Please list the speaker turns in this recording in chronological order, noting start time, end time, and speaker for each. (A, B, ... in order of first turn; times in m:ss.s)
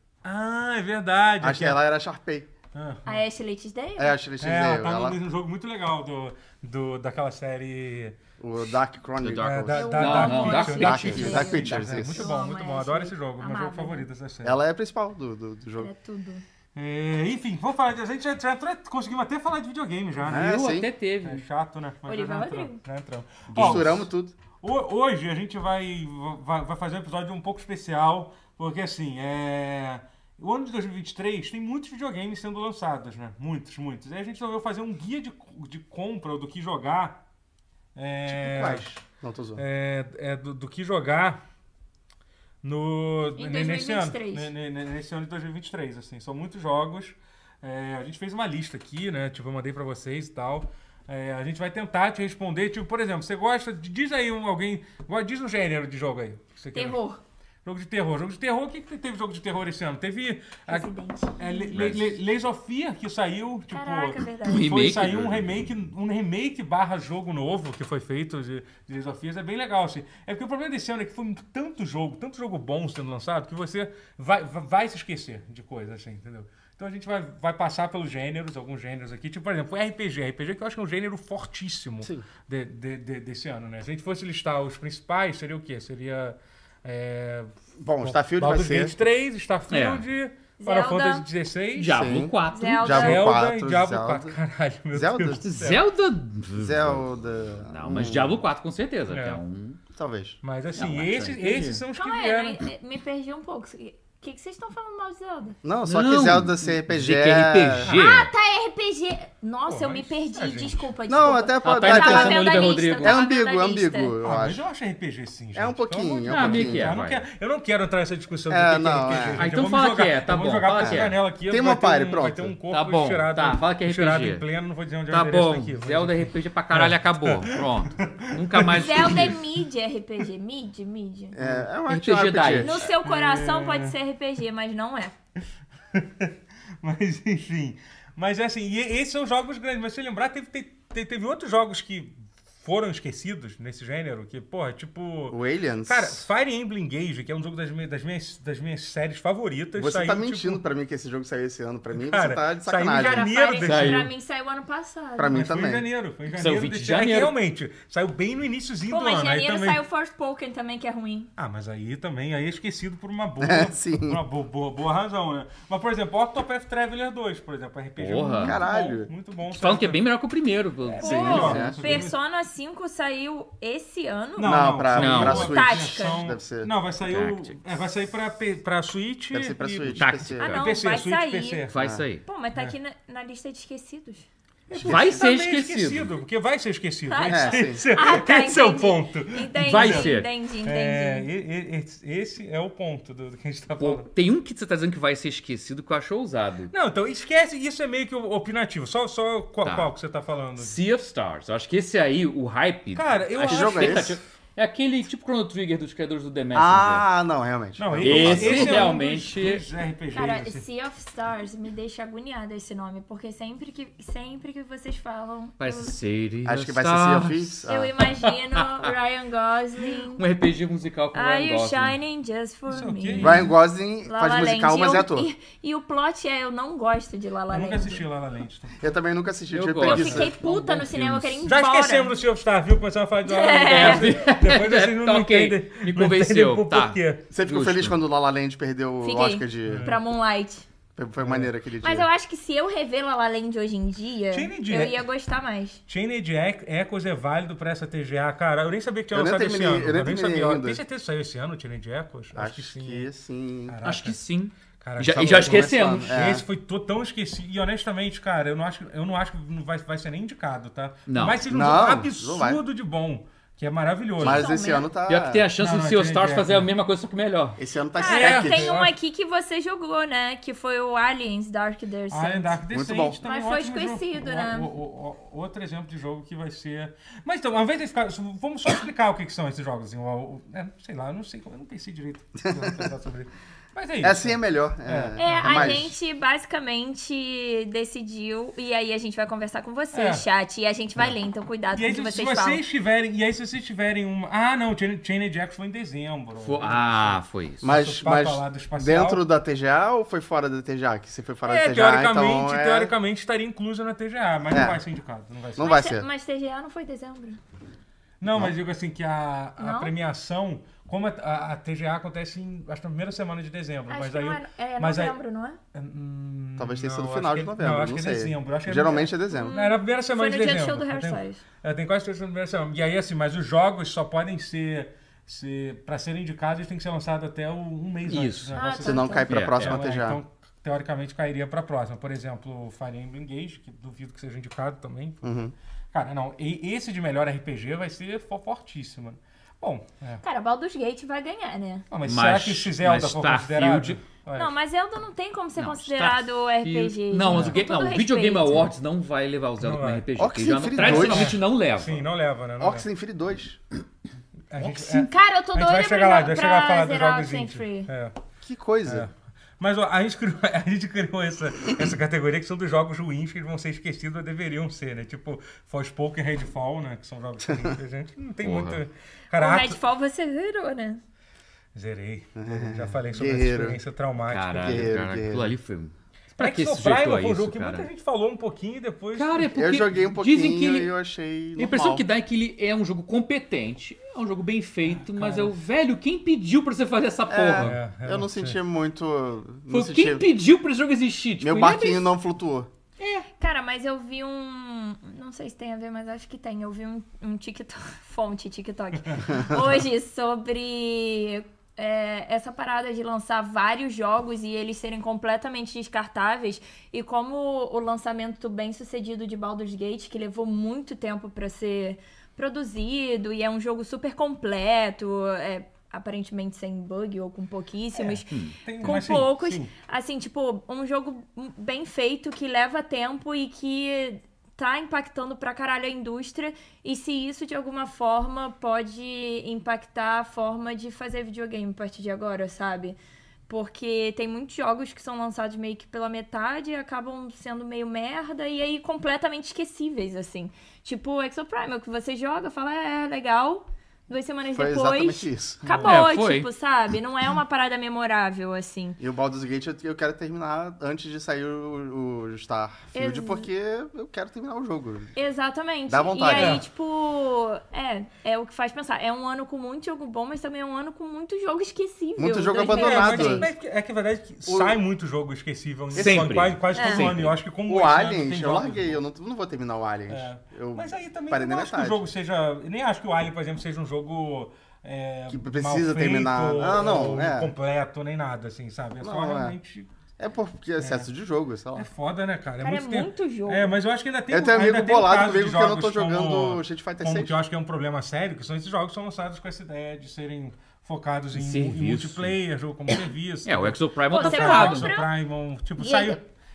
0:00.2-0:01.8 A
0:01.4-0:02.5 B
0:02.7-0:03.2 A
0:03.0-0:04.2 C
0:04.0-0:05.2 B
0:04.4-0:08.2 A
0:08.4-0:12.3 B
0:09.2-0:11.8 D
0:09.4-0:14.6 A
0:09.7-0:14.1 C
0:14.4-0:15.9 B
0:15.8-0:16.4 C
0:16.7-0:20.5 A
0:20.3-0:20.9 B
0:20.3-0:21.4 D
0:21.2-0:24.1 A
0:22.1-0:22.8 C
0:23.5-0:24.0 D
0:23.5-0:24.3 B
0:24.6-0:37.2 A
0:37.9-0:38.9 A
0:38.3-0:39.6 B
0:39.6-0:41.4 A
0:42.6-0:57.0 A
0:43.4-0:44.5 C
0:56.7-0:57.2 C
0:57.6-1:32.1 A
1:00.7-1:01.8 C
1:01.7-1:02.1 D
1:03.7-1:04.8 C
1:04.4-1:05.6 D
1:27.8-1:28.9 B
1:29.7-1:30.0 D
1:30.6-1:31.2 C
1:31.7-1:33.0 D
1:31.9-1:34.4 B
1:32.5-1:33.3 C
1:32.9-1:35.8 A
1:34.9-1:35.4 B
1:35.4-1:39.8 D
1:36.6-1:38.4 B
1:39.1-1:39.4 A
1:40.0-1:40.4 B
1:40.4-1:42.6 A
1:40.7-1:41.8 D
1:41.9-1:45.6 C
1:45.6-1:47.9 B
1:45.8-1:48.3 D
1:47.9-1:54.1 C
1:49.7-1:50.9 A
1:51.1-1:54.6 B
1:51.6-1:53.2 D
1:54.2-2:09.4 A
1:55.5-1:57.0 B
1:56.3-1:57.2 D
1:58.5-1:59.5 B
1:59.3-2:01.2 D
2:00.8-2:02.5 B
2:02.7-2:04.4 D
2:05.1-2:09.4 D
2:08.7-2:11.4 C
2:11.3-2:12.8 B
2:11.4-2:11.7 A
2:11.9-2:12.9 D
2:12.6-2:15.1 C
2:13.0-2:14.0 A
2:15.9-2:30.6 A
2:25.3-2:26.2 B
2:29.8-2:33.3 B
2:31.9-2:34.1 A
2:32.9-2:35.4 C
2:33.6-2:34.1 D
2:35.2-2:35.8 B
2:35.3-2:39.8 A
2:36.3-2:37.3 D
2:38.9-2:41.3 C
2:41.4-2:50.0 A
2:43.4-2:44.2 B
2:48.0-2:48.6 D
2:48.4-2:49.1 B
2:49.4-2:51.6 D
2:50.8-2:52.1 A
2:51.0-2:54.7 C
2:51.0-2:51.8 B
2:54.4-3:01.8 A
2:54.4-2:56.7 B
2:54.9-2:55.5 D
2:55.2-2:56.2 C
2:57.0-2:57.6 D
2:59.3-3:00.6 B
3:00.0-3:00.6 D
3:00.4-3:01.7 C
3:01.7-3:02.2 D
3:01.8-3:02.0 B
3:02.2-3:04.3 C
3:04.7-3:14.1 A
3:04.7-3:05.2 B
3:04.8-3:06.1 D
3:07.1-3:11.3 C
3:07.3-3:07.8 B
3:09.6-3:10.3 D
3:13.8-3:16.7 D
3:16.7-3:20.8 A
3:19.6-3:19.9 D
3:20.6-3:27.0 D
3:22.9-3:24.2 A
3:23.4-3:24.2 B
3:26.5-3:28.9 B
3:27.8-3:30.6 A
3:28.0-3:29.6 D
3:30.1-3:35.9 C
3:35.6-3:37.6 D
3:36.4-3:37.9 B
3:37.7-3:40.2 C
3:38.2-3:38.9 D
3:39.8-3:42.0 D
3:41.1-3:43.5 C
3:42.7-3:43.5 A
3:43.2-3:45.3 B
3:44.0-3:48.0 C
3:47.5-3:48.8 A
3:48.8-3:50.3 B
3:49.5-3:51.4 D
3:49.8-3:52.1 C
3:51.4-3:57.2 A
3:53.2-3:54.1 C
3:53.7-3:58.0 D
3:57.3-3:59.9 B
3:59.0-4:00.6 C
3:59.6-4:00.0 A
4:01.0-4:02.1 B
4:01.2-4:01.5 A
4:01.8-4:05.8 C
4:04.3-4:05.0 A
4:05.9-4:13.1 A
4:09.1-4:10.8 B
4:12.3-4:13.8 B
4:13.7-4:14.2 A
4:13.8-4:16.2 D
4:14.8-4:24.5 A
4:15.1-4:16.4 B
4:21.1-4:21.4 D
4:21.5-4:22.6 B
4:24.2-4:25.5 B
4:24.2-4:24.9 C
4:25.1-4:27.6 D
4:25.6-4:26.7 A
4:27.6-4:28.8 B
4:27.9-4:32.6 C
4:28.0-4:28.9 A
4:32.1-4:45.9 A
4:32.7-4:33.2 B
4:33.2-4:34.7 C
4:42.4-4:42.9 B
4:44.0-4:45.9 B
4:45.2-4:52.6 C
4:49.9-4:50.2 A
4:51.7-4:59.2 A
4:56.4-4:57.6 D
4:57.6-5:02.9 B
5:01.4-5:05.7 A
5:04.5-5:04.8 B
5:05.6-5:06.1 B
5:05.6-5:07.4 C
5:08.2-5:15.2 A
5:08.3-5:08.5 B
5:09.6-5:09.9 C
5:13.9-5:15.6 C
5:15.7-5:35.3 A
5:16.6-5:19.5 B
5:19.3-5:21.4 C
5:28.0-5:28.5 D
5:28.5-5:29.3 C
5:28.8-5:30.2 B
5:29.3-5:29.8 D
5:35.2-5:35.5 B
5:35.9-5:40.2 A
5:40.2-5:41.8 C
5:41.9-5:44.5 A
5:42.0-5:44.0 D
5:44.3-5:48.7 C
5:45.6-5:52.0 D
5:47.3-5:47.6 A
5:49.6-5:50.0 A
5:50.2-5:51.4 B
5:50.7-5:52.8 A
5:52.6-5:53.6 B
5:54.5-5:58.2 A
5:54.6-5:57.9 C
5:58.4-5:59.1 B
5:58.8-6:09.8 A
6:08.4-6:08.8 D
6:09.4-6:11.0 C
6:11.7-6:14.9 A
6:12.4-6:13.8 B
6:14.2-6:17.9 D
6:14.6-6:15.5 B
6:16.4-6:19.5 A
6:19.1-6:20.9 D
6:19.5-6:22.0 B
6:21.6-6:27.8 D
6:25.0-6:25.5 A
6:27.3-6:30.2 B
6:27.6-6:28.6 A
6:29.7-6:32.1 D
6:31.4-6:32.7 B
6:33.0-6:33.3 D
6:33.4-7:13.0 C
6:39.3-6:39.6 B
6:58.0-6:59.7 A
6:58.3-6:59.0 D
7:13.5-7:29.0 C
7:24.5-7:25.6 B
7:25.6-7:26.0 A
7:25.8-7:26.5 D
7:29.0-7:35.1 B
7:32.9-7:33.5 C
7:35.2-7:43.5 C
7:35.9-7:36.6 B
7:36.3-7:36.6 A
7:42.2-7:43.5 B
7:42.6-7:49.0 A
7:44.4-7:44.8 B
7:45.9-7:46.4 B
7:45.9-7:47.4 D
7:46.7-7:47.1 C
7:47.7-7:52.1 B
7:50.1-7:59.9 A
7:55.3-7:57.5 B
7:59.0-7:59.6 B
8:00.2-8:01.9 B
8:00.8-8:01.1 A
8:01.8-8:16.2 A
8:02.6-8:03.7 C
8:04.3-8:07.4 B
8:11.3-8:12.4 D
8:12.9-8:14.9 D
8:14.1-8:15.1 C
8:15.8-8:16.2 C